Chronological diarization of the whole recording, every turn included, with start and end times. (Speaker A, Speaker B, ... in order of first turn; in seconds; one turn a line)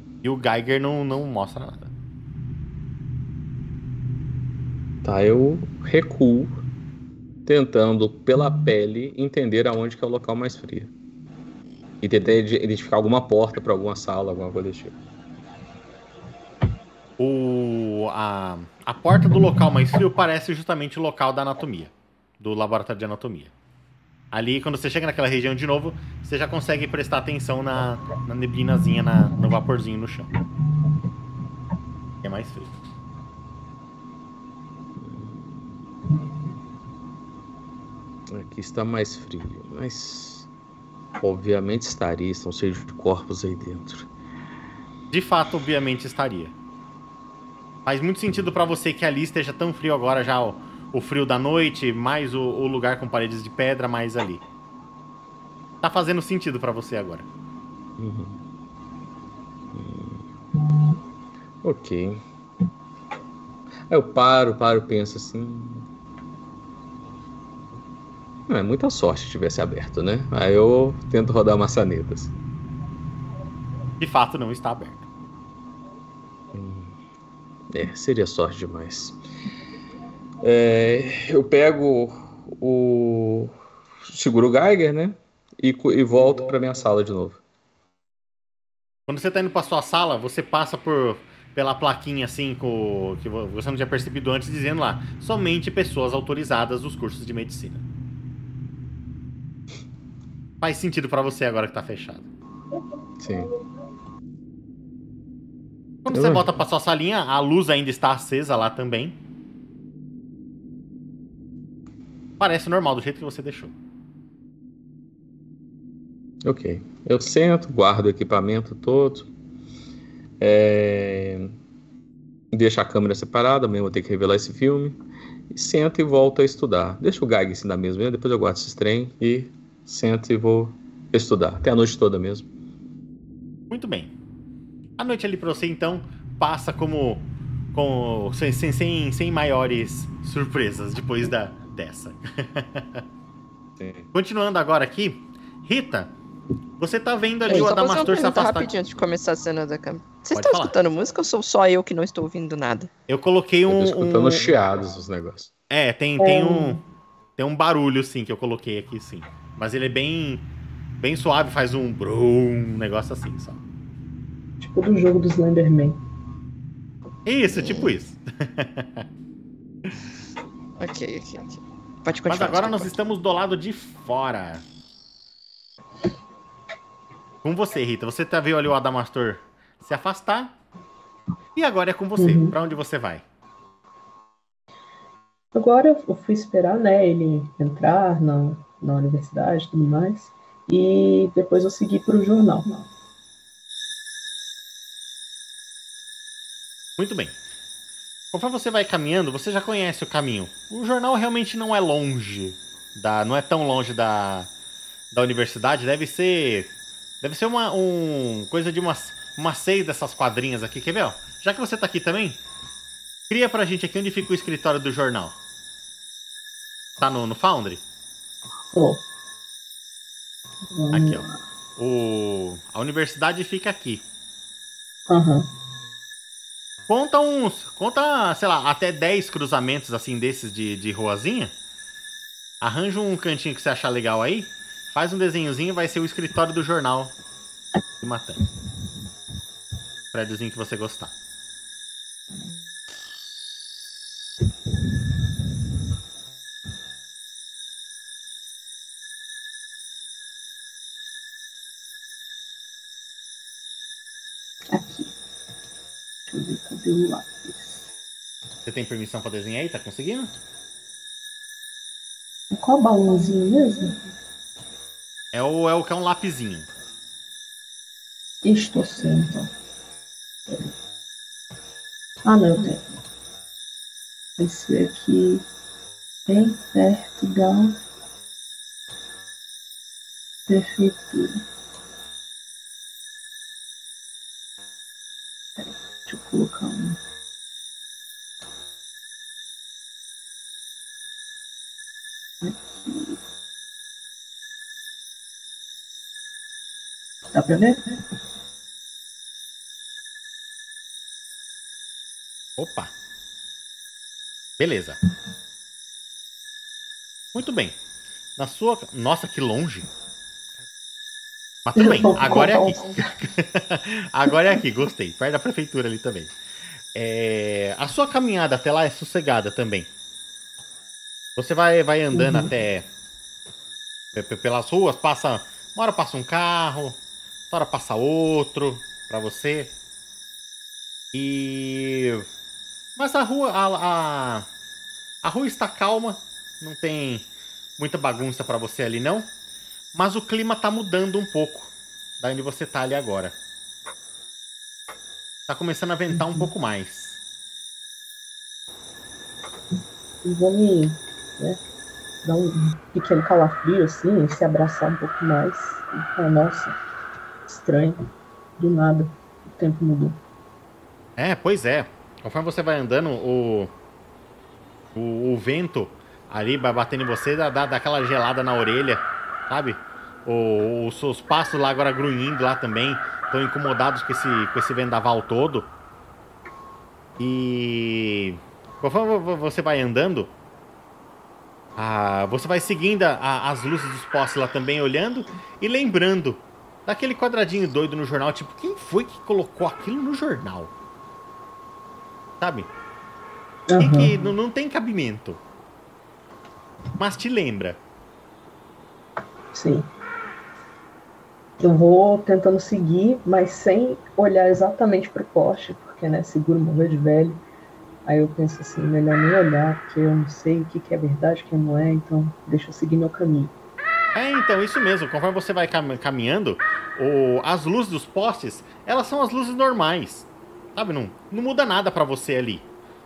Speaker A: 0.2-1.9
Speaker B: 5.0-6.6
Speaker B: 7.5-10.9
Speaker B: 12.0-15.0
Speaker A: 17.2-23.5
Speaker A: 24.3-30.3
Speaker A: 32.2-32.7
Speaker B: 35.0-35.7
Speaker B: 38.3-40.5
Speaker B: 41.2-44.1
Speaker A: 45.1-46.5
Speaker A: 47.9-54.4
Speaker A: 55.8-57.2
Speaker B: 58.0-58.4
Speaker B: 59.7-60.3
Speaker B: 61.6-62.2
Speaker B: 63.9-65.9
Speaker B: 68.5-72.3
Speaker A: 74.0-75.0
Speaker B: 76.5-76.9
Speaker B: 77.7-79.2
Speaker B: 80.4-83.5
Speaker B: 84.1-87.4
Speaker A: 89.1-97.8
Speaker A: 100.6-102.2
Speaker B: 103.2-103.5
Speaker A: 106.0-109.2
Speaker B: 106.1-106.5
Speaker A: 112.4-113.7
Speaker B: 116.4-119.3
Speaker B: 120.4-121.5
Speaker B: 122.5-125.0
Speaker B: 125.5-132.5
Speaker A: 133.7-134.1
Speaker A: 135.0-143.0
Speaker B: 143.8-144.1
Speaker A: 144.1-146.1
Speaker A: 146.8-148.7
Speaker C: 147.5-152.9
Speaker A: 150.3-150.7
Speaker A: 153.1-154.5
Speaker B: 153.7-155.5
Speaker A: 155.7-156.8
Speaker D: 156.2-156.8
Speaker A: 157.4-160.4
Speaker A: 161.0-163.6
Speaker D: 164.6-166.0
Speaker A: 167.2-169.1
Speaker C: 167.6-167.9
Speaker C: 170.8-172.9
Speaker A: 172.3-174.6
Speaker A: 177.4-180.5
Speaker A: 181.6-183.2
Speaker D: 182.2-182.6
Speaker D: 185.5-192.9
Speaker A: 197.0-197.3
Speaker A: 198.3-204.5
Speaker A: 205.1-206.7
Speaker A: 207.2-212.4
Speaker A: 213.3-215.4
Speaker A: 217.0-217.8
Speaker D: 218.7-219.0
Speaker D: 220.7-221.3
Speaker A: 220.9-221.3
Speaker A: 221.8-224.0
Speaker D: 225.1-225.5
Speaker A: 226.9-231.5
Speaker A: 232.6-237.2
Speaker A: 238.0-238.5
Speaker A: 240.1-241.1
Speaker D: 254.7-255.1
Speaker D: 256.3-257.9
Speaker A: 258.6-260.3
Speaker D: 262.5-264.0
Speaker A: 265.3-266.7
Speaker D: 268.4-269.5
Speaker D: 272.2-272.8
Speaker D: 274.4-275.4
Speaker D: 276.3-277.8
Speaker D: 280.5-281.4
Speaker D: 285.6-287.0
Speaker D: 292.4-293.2
Speaker D: 297.3-298.0
Speaker A: 302.6-302.9
Speaker A: 304.6-305.0
Speaker A: 307.3-307.8
Speaker A: 308.4-309.9
Speaker A: 311.6-316.3
Speaker D: 311.8-313.2
Speaker A: 316.9-319.9
Speaker A: 321.4-322.9
Speaker D: 322.1-322.5
Speaker A: 324.1-327.0
Speaker A: 327.5-329.7
Speaker A: 331.1-332.3
Speaker A: 333.0-334.5
Speaker A: 335.2-337.3
Speaker A: 337.8-339.3
Speaker A: 339.9-343.4
Speaker A: 345.5-347.2
Speaker D: 346.1-346.5
Speaker D: 350.2-351.6
Speaker D: 352.2-356.8
Speaker D: 357.5-358.0
Speaker D: 358.6-360.2
Speaker A: 361.2-363.7
Speaker A: 364.9-375.7
Speaker A: 377.2-380.3
Speaker A: 381.8-390.7
Speaker A: 392.4-392.7
Speaker D: 393.7-394.3
Speaker A: 393.8-395.4
Speaker A: 397.0-397.8
Speaker D: 399.5-399.9
Speaker D: 401.6-407.4
Speaker D: 408.1-413.5
Speaker A: 414.1-422.6